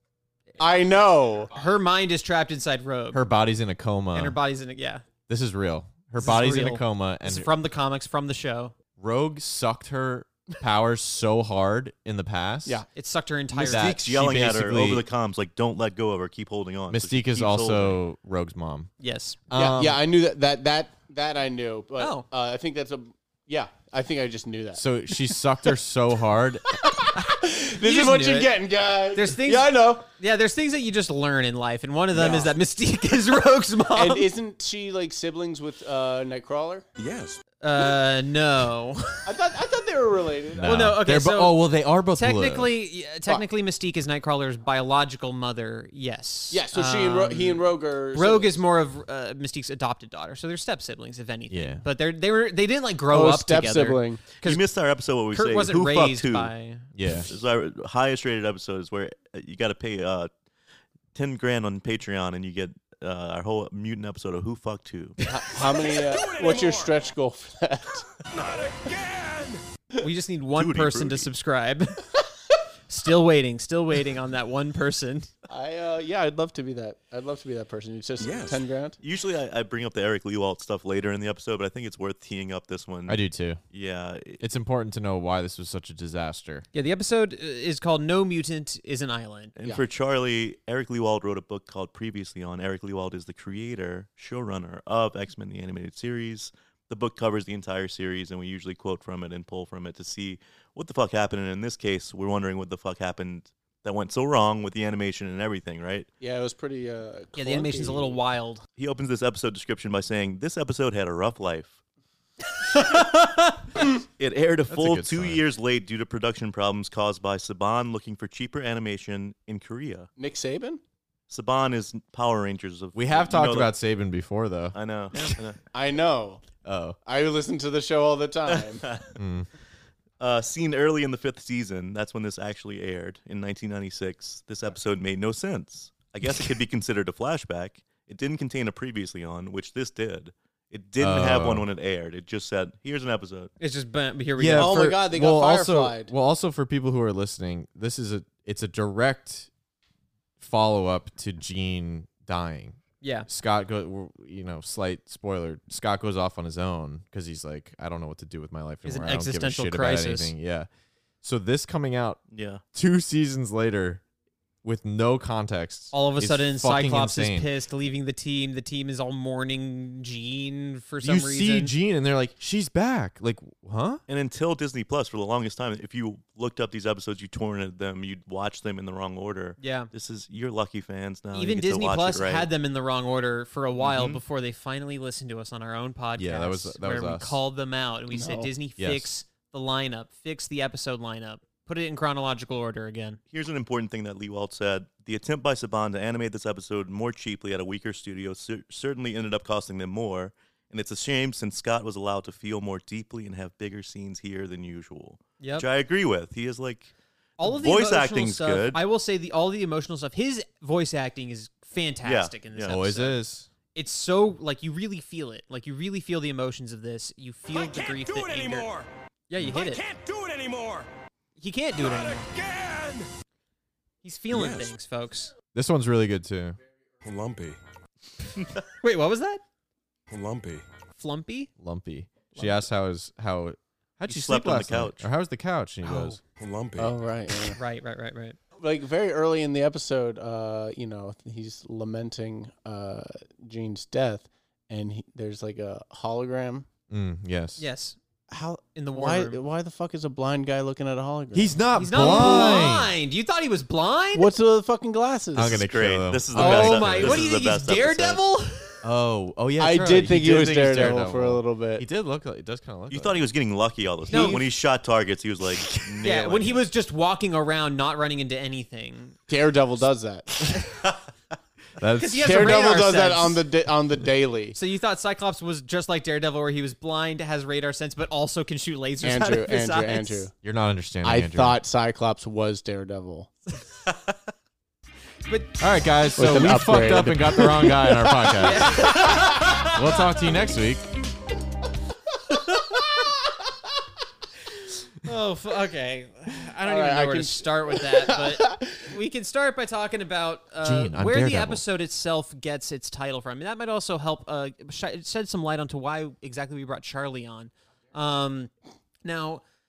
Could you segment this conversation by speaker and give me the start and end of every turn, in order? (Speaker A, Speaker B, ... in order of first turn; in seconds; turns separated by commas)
Speaker A: 0.6-1.5, Speaker B: 1.5-3.2, Speaker C: 3.1-4.4, Speaker B: 4.1-5.0, Speaker C: 5.3-7.5, Speaker B: 6.2-8.7, Speaker C: 9.0-12.8, Speaker B: 12.9-13.9, Speaker C: 13.5-15.0, Speaker D: 13.6-18.0, Speaker C: 16.9-18.9, Speaker B: 19.0-19.4, Speaker C: 19.5-20.0, Speaker A: 19.5-25.7, Speaker B: 22.0-22.2, Speaker C: 24.7-26.7, Speaker A: 26.8-30.1, Speaker B: 27.8-28.5, Speaker B: 29.1-34.3, Speaker A: 32.1-32.5, Speaker A: 33.9-36.8, Speaker E: 37.0-37.4, Speaker B: 37.6-39.2, Speaker A: 39.2-41.0, Speaker C: 40.6-42.7, Speaker B: 40.6-41.6, Speaker B: 42.1-54.6, Speaker A: 46.5-48.6, Speaker C: 51.5-51.8, Speaker A: 53.1-54.2, Speaker D: 54.4-56.5, Speaker B: 55.3-56.9, Speaker C: 56.9-57.3, Speaker D: 57.1-60.3, Speaker D: 61.1-65.2, Speaker A: 65.3-68.0, Speaker E: 65.7-66.9, Speaker E: 68.3-69.6, Speaker B: 70.0-72.0, Speaker D: 70.5-71.3, Speaker B: 72.9-75.3, Speaker A: 75.5-79.0, Speaker E: 78.2-78.6, Speaker D: 79.0-83.2, Speaker C: 83.1-83.6, Speaker D: 83.7-84.4, Speaker C: 84.4-86.7, Speaker B: 86.7-89.5, Speaker D: 89.5-106.1, Speaker A: 106.2-108.2, Speaker B: 107.3-108.6, Speaker D: 108.8-111.8, Speaker B: 112.7-113.5, Speaker D: 114.2-120.1, Speaker C: 114.7-115.4, Speaker A: 120.2-120.8, Speaker D: 121.3-123.7, Speaker C: 122.9-124.8, Speaker D: 124.7-125.6, Speaker A: 125.7-126.4, Speaker C: 126.6-127.0, Speaker A: 127.0-128.8, Speaker D: 128.5-129.2, Speaker C: 129.2-129.5, Speaker D: 130.2-143.5, Speaker C: 141.0-141.7, Speaker B: 143.6-144.9, Speaker C: 144.4-149.5, Speaker A: 144.5-146.1, Speaker C: 150.4-160.7, Speaker B: 153.0-153.3, Speaker B: 158.8-160.3, Speaker C: 161.2-162.2, Speaker D: 162.3-162.6, Speaker C: 162.7-164.0, Speaker C: 164.6-167.5, Speaker B: 165.9-171.7, Speaker C: 171.0-174.0, Speaker D: 174.1-182.5, Speaker B: 179.6-179.9, Speaker B: 181.3-193.2, Speaker D: 183.8-184.2, Speaker C: 186.2-187.4, Speaker A: 188.1-188.5, Speaker C: 188.8-189.1, Speaker D: 193.3-208.8, Speaker B: 205.4-205.7, Speaker B: 207.4-213.2, Speaker D: 212.0-212.8, Speaker C: 212.7-213.5, Speaker B: 213.7-218.7, Speaker E: 217.5-220.9, Speaker B: 219.3-219.8, Speaker B: 221.4-222.3, Speaker E: 221.8-223.1, Speaker B: 224.0-225.3, Speaker E: 224.3-224.7, Speaker C: 225.5-226.6, Speaker E: 227.0-227.6, Speaker B: 228.8-229.4, Speaker E: 230.1-230.7, Speaker B: 230.9-231.5, Speaker C: 231.6-236.2, Speaker B: 232.3-232.6, Speaker D: 234.0-235.1, Speaker B: 235.9-236.1, Speaker E: 236.3-236.9, Speaker A: 236.8-237.6, Speaker B: 237.6-238.4, Speaker A: 238.6-246.7, Speaker C: 246.9-247.6, Speaker B: 247.6-248.0, Speaker A: 248.3-252.7, Speaker B: 248.8-249.4, Speaker C: 251.3-252.9, Speaker B: 251.8-254.3, Speaker A: 254.1-255.6, Speaker C: 255.3-257.2, Speaker D: 255.4-258.2, Speaker B: 256.4-258.8, Speaker C: 258.8-263.3, Speaker A: 259.6-261.9, Speaker D: 262.9-266.6, Speaker A: 264.1-264.5, Speaker B: 264.1-264.4, Speaker B: 266.0-269.2, Speaker A: 269.3-270.6, Speaker C: 271.8-272.6, Speaker B: 272.0-273.4, Speaker A: 272.2-274.6, Speaker B: 274.5-280.2, Speaker A: 279.0-280.3, Speaker C: 280.4-281.6, Speaker A: 281.0-283.3, Speaker B: 285.3-285.6, Speaker C: 285.6-290.9, Speaker A: 286.1-288.8, Speaker B: 288.4-289.7, Speaker B: 292.3-292.8, Speaker B: 295.0-308.5, Speaker A: 296.6-298.9, Speaker C: 300.6-301.6, Speaker B: 309.0-309.4